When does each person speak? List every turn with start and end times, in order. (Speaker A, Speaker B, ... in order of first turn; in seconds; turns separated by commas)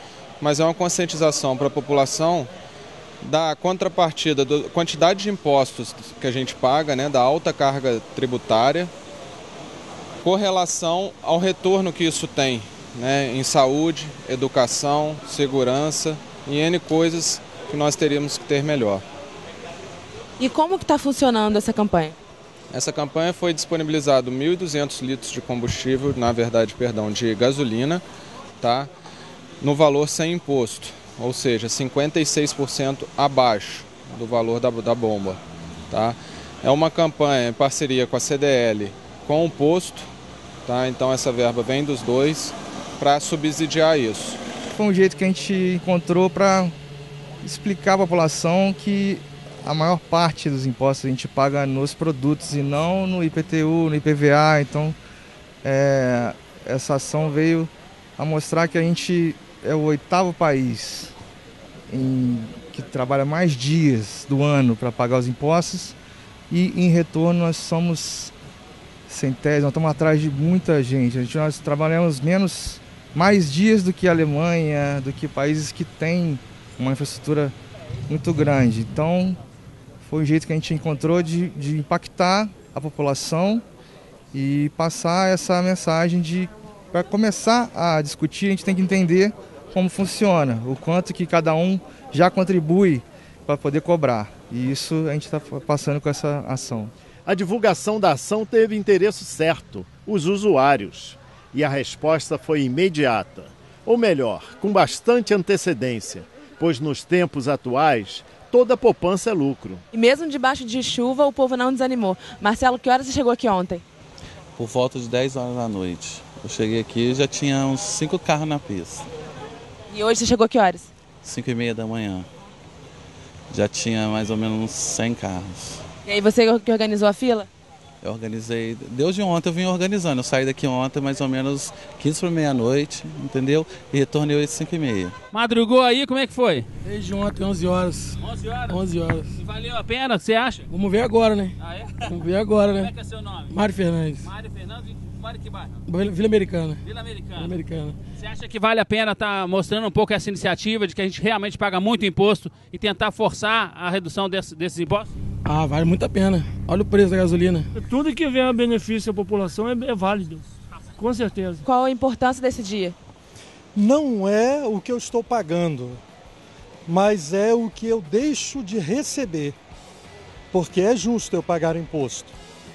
Speaker A: 0.4-2.5, Speaker A: 3.2-8.9, Speaker A: 10.2-19.0, Speaker B: 20.4-22.1, Speaker A: 22.7-28.0, Speaker A: 28.6-28.9, Speaker A: 29.6-35.4, Speaker A: 35.9-40.1, Speaker A: 40.6-44.4, Speaker C: 44.7-46.7, Speaker C: 47.4-55.0, Speaker C: 55.6-61.1, Speaker C: 61.9-66.0, Speaker C: 66.5-68.3, Speaker C: 69.1-77.5, Speaker C: 78.1-79.4, Speaker C: 80.0-83.6, Speaker C: 84.3-96.9, Speaker D: 97.2-109.8, Speaker B: 109.9-113.8, Speaker E: 114.5-119.1, Speaker B: 119.9-120.9, Speaker E: 121.2-122.3, Speaker E: 123.5-125.8, Speaker B: 126.0-127.5, Speaker E: 128.0-135.2, Speaker F: 135.3-136.7, Speaker G: 136.8-138.2, Speaker F: 138.2-138.8, Speaker G: 138.7-139.3, Speaker F: 139.4-140.7, Speaker G: 140.7-141.5, Speaker F: 141.6-142.2, Speaker G: 142.1-142.9, Speaker F: 142.7-143.6, Speaker G: 143.5-144.2, Speaker F: 144.2-145.8, Speaker G: 145.8-146.8, Speaker F: 146.8-147.6, Speaker G: 147.4-148.0, Speaker F: 148.2-155.1, Speaker G: 155.4-157.7, Speaker H: 157.7-161.7, Speaker B: 161.6-162.9, Speaker I: 163.7-166.0, Speaker I: 166.9-169.6, Speaker I: 170.5-172.3